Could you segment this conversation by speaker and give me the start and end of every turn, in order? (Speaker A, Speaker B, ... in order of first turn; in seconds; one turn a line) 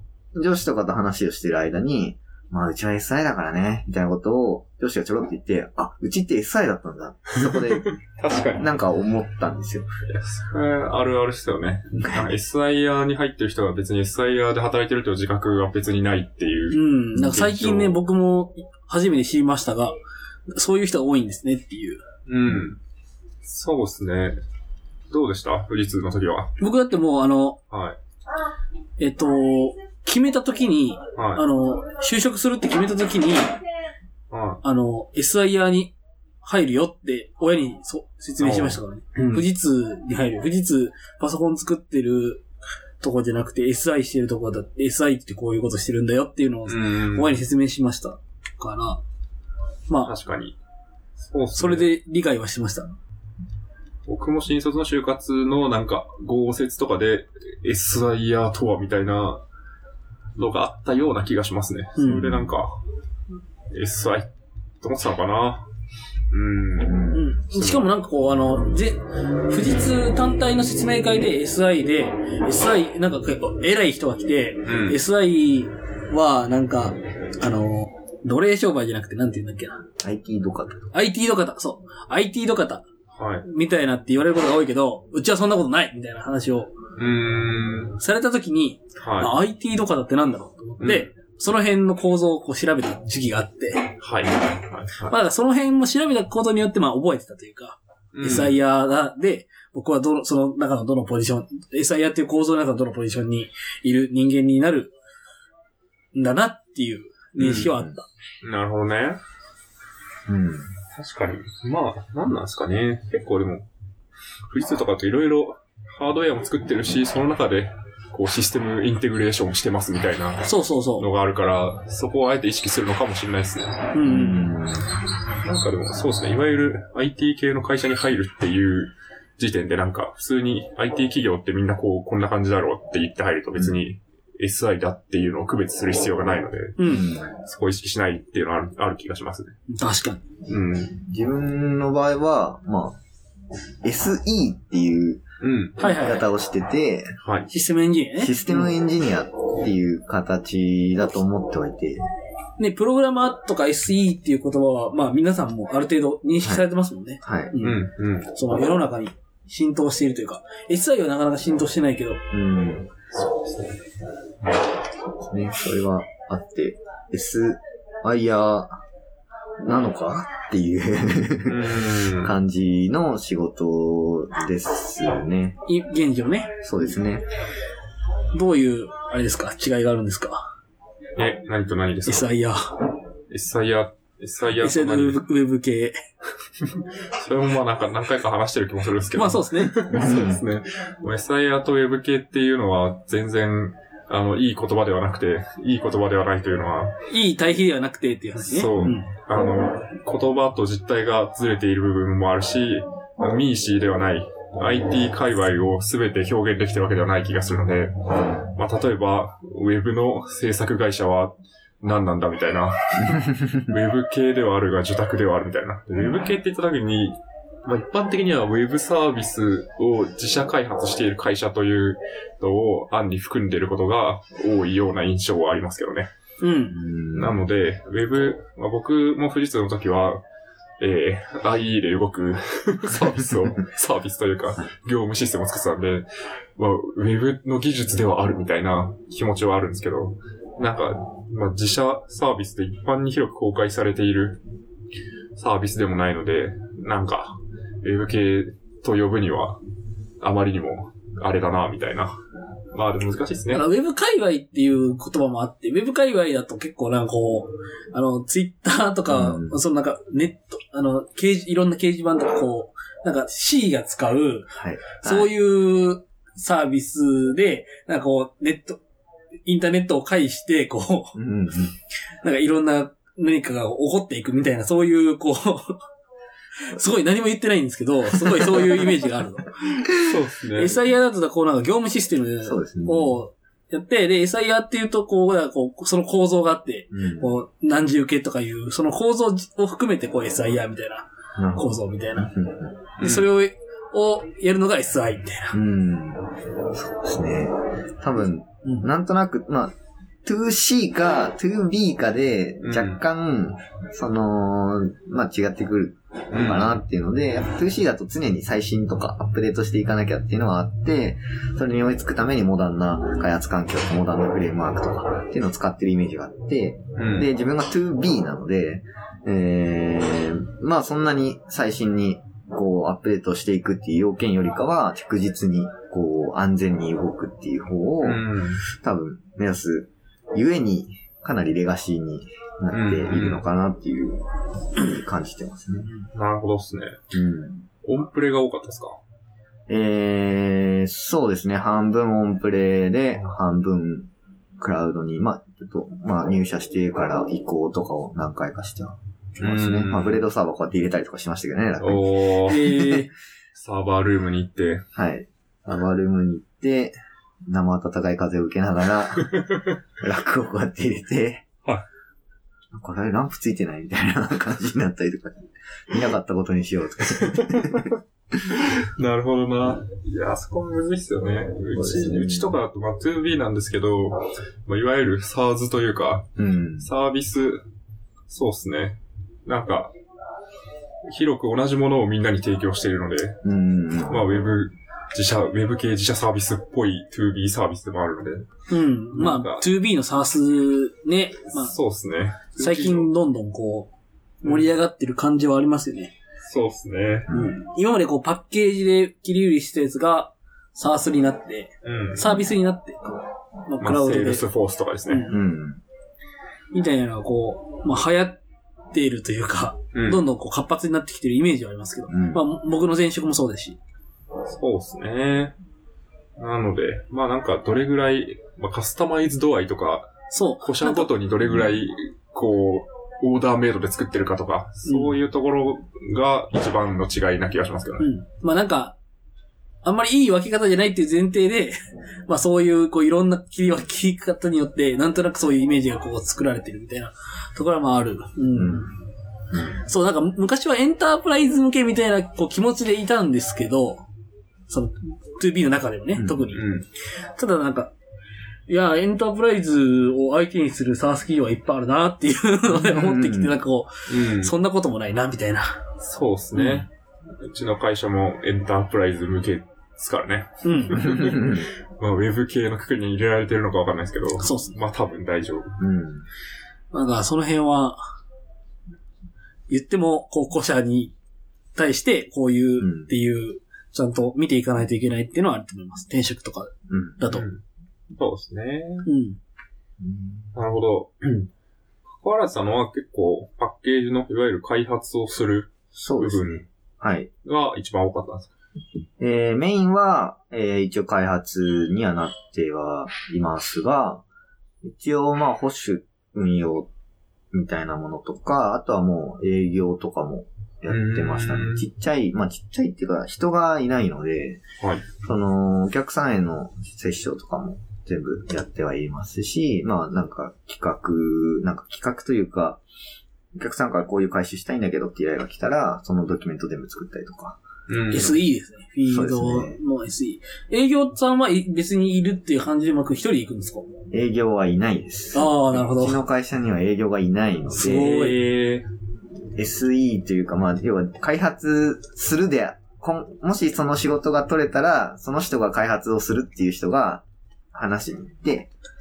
Speaker A: 0.3-7.9
Speaker B: 7.4-8.7
Speaker A: 8.6-9.9
Speaker B: 10.1-18.0
Speaker A: 11.9-12.3
Speaker C: 16.7-20.0
Speaker C: 20.5-22.0
Speaker B: 22.3-22.8
Speaker B: 23.4-24.4
Speaker B: 25.1-26.5
Speaker C: 26.6-27.6
Speaker B: 27.7-28.0
Speaker C: 29.0-33.6
Speaker B: 31.2-31.4
Speaker B: 34.3-34.6
Speaker C: 34.6-42.5
Speaker B: 38.4-39.5
Speaker C: 43.0-49.0
Speaker B: 46.7-47.4
Speaker C: 49.9-50.1
Speaker B: 50.0-50.6
Speaker B: 51.2-51.9
Speaker C: 51.5-52.9
Speaker B: 54.1-59.4
Speaker B: 60.4-62.8
Speaker C: 62.0-62.5
Speaker B: 63.7-64.3
Speaker B: 64.8-65.7
Speaker B: 66.3-67.9
Speaker A: 66.8-67.2
Speaker C: 67.1-79.8
Speaker B: 74.7-75.0
Speaker A: 80.0-80.9
Speaker C: 80.9-82.8
Speaker B: 83.1-83.5
Speaker C: 83.4-86.8
Speaker B: 87.0-88.0
Speaker C: 88.0-94.0
Speaker B: 89.0-89.3
Speaker B: 90.8-91.1
Speaker B: 94.0-95.2
Speaker C: 95.1-104.9
Speaker B: 98.1-98.6
Speaker C: 106.1-108.0
Speaker B: 107.4-107.7
Speaker A: 107.4-108.0
Speaker B: 108.4-109.2
Speaker A: 110.3-110.7
Speaker B: 110.9-113.7
Speaker B: 114.5-123.9
Speaker C: 120.5-121.1
Speaker C: 123.9-124.5
Speaker A: 124.0-124.9
Speaker B: 125.4-136.8
Speaker C: 136.8-137.1
Speaker A: 136.8-137.3
Speaker B: 137.3-139.6
Speaker C: 139.7-140.2
Speaker B: 140.5-141.0
Speaker A: 140.9-143.0
Speaker A: 143.8-145.2
Speaker B: 145.4-145.8
Speaker C: 145.8-146.3
Speaker A: 145.8-147.2
Speaker B: 147.2-147.5
Speaker C: 147.5-148.7
Speaker A: 148.2-152.1
Speaker C: 152.6-162.2
Speaker A: 157.2-157.6
Speaker B: 157.6-158.3
Speaker A: 162.3-162.9
Speaker B: 163.1-163.8
Speaker A: 165.0-168.8
Speaker A: 169.6-175.6
Speaker B: 171.5-172.3
Speaker C: 175.7-176.6
Speaker A: 176.6-177.2
Speaker C: 178.3-180.5
Speaker B: 181.2-182.3
Speaker C: 182.1-182.7
Speaker B: 183.3-185.2
Speaker C: 184.6-186.0
Speaker B: 186.8-197.0
Speaker C: 189.2-189.8
Speaker A: 189.9-190.4
Speaker C: 197.1-199.1
Speaker B: 198.4-226.1
Speaker A: 213.0-213.7
Speaker C: 226.4-226.8
Speaker A: 226.7-227.4
Speaker B: 227.1-230.2
Speaker B: 230.8-244.4
Speaker B: 245.4-249.6
Speaker B: 250.2-252.2
Speaker B: 252.7-253.7
Speaker C: 253.5-268.8
Speaker A: 259.1-259.6
Speaker A: 264.5-265.3
Speaker C: 269.4-271.2
Speaker A: 271.1-271.8
Speaker C: 272.2-275.8
Speaker C: 276.6-279.9
Speaker A: 278.4-278.7
Speaker B: 280.0-280.9
Speaker C: 280.5-292.3
Speaker A: 282.4-283.2
Speaker A: 286.9-287.3
Speaker A: 291.4-292.9
Speaker C: 293.0-295.6
Speaker B: 293.0-293.3
Speaker A: 295.5-299.7
Speaker A: 300.2-335.9
Speaker B: 302.6-303.0
Speaker B: 306.3-306.8
Speaker B: 317.0-317.3
Speaker B: 328.0-328.6
Speaker B: 332.7-333.4
Speaker B: 336.1-337.0
Speaker A: 337.1-337.7
Speaker B: 337.8-339.0
Speaker A: 339.7-352.9
Speaker B: 349.4-350.2
Speaker B: 351.8-352.8
Speaker C: 352.5-353.1
Speaker B: 353.6-354.9
Speaker A: 354.9-356.9
Speaker A: 357.5-359.4
Speaker B: 359.3-359.7
Speaker A: 360.0-361.4
Speaker A: 362.7-367.9
Speaker B: 367.1-368.0
Speaker B: 368.5-376.3
Speaker A: 371.7-372.6
Speaker A: 376.4-376.9
Speaker B: 376.8-377.6
Speaker B: 378.3-379.9
Speaker B: 381.1-383.4
Speaker A: 383.4-384.3
Speaker B: 384.1-388.5
Speaker C: 388.7-391.8
Speaker B: 389.1-389.6
Speaker B: 391.5-393.1
Speaker C: 392.6-396.1
Speaker B: 396.4-397.3
Speaker C: 397.3-404.4
Speaker B: 401.8-402.5
Speaker B: 403.8-405.3
Speaker C: 405.1-405.4
Speaker A: 405.3-405.8
Speaker C: 406.7-408.4
Speaker C: 408.9-413.8
Speaker B: 409.9-410.2
Speaker A: 412.1-412.4
Speaker B: 414.5-415.6
Speaker B: 416.4-428.1
Speaker C: 420.3-421.1
Speaker A: 421.4-421.7
Speaker C: 424.9-425.2
Speaker C: 428.0-428.9
Speaker C: 429.8-438.9
Speaker A: 438.5-438.9
Speaker A: 439.5-439.8
Speaker C: 439.8-444.1
Speaker C: 444.7-446.7
Speaker A: 446.1-446.4
Speaker B: 446.5-446.9
Speaker C: 447.4-447.9
Speaker C: 448.7-455.8
Speaker A: 452.7-453.6
Speaker B: 454.1-454.5
Speaker B: 456.0-465.8
Speaker C: 456.6-456.9
Speaker C: 460.6-461.1
Speaker A: 461.0-461.7
Speaker C: 464.4-464.8
Speaker A: 465.8-466.3
Speaker C: 466.9-468.0
Speaker C: 469.7-471.1
Speaker C: 471.8-477.5
Speaker A: 472.8-473.1
Speaker A: 476.9-477.2
Speaker B: 477.3-479.1
Speaker C: 479.1-479.4
Speaker A: 480.0-480.5
Speaker B: 480.5-481.4
Speaker B: 482.1-486.6
Speaker A: 486.0-487.3
Speaker B: 487.4-488.5
Speaker A: 489.2-494.2
Speaker A: 494.8-496.9
Speaker A: 497.5-504.6
Speaker B: 500.9-501.9
Speaker B: 504.8-505.1
Speaker A: 505.2-512.8
Speaker A: 513.5-517.6
Speaker B: 517.9-518.4
Speaker C: 518.1-523.9
Speaker A: 519.1-519.8
Speaker A: 524.1-528.2
Speaker C: 525.3-526.2
Speaker C: 527.7-528.4
Speaker B: 527.9-528.9
Speaker A: 529.5-538.7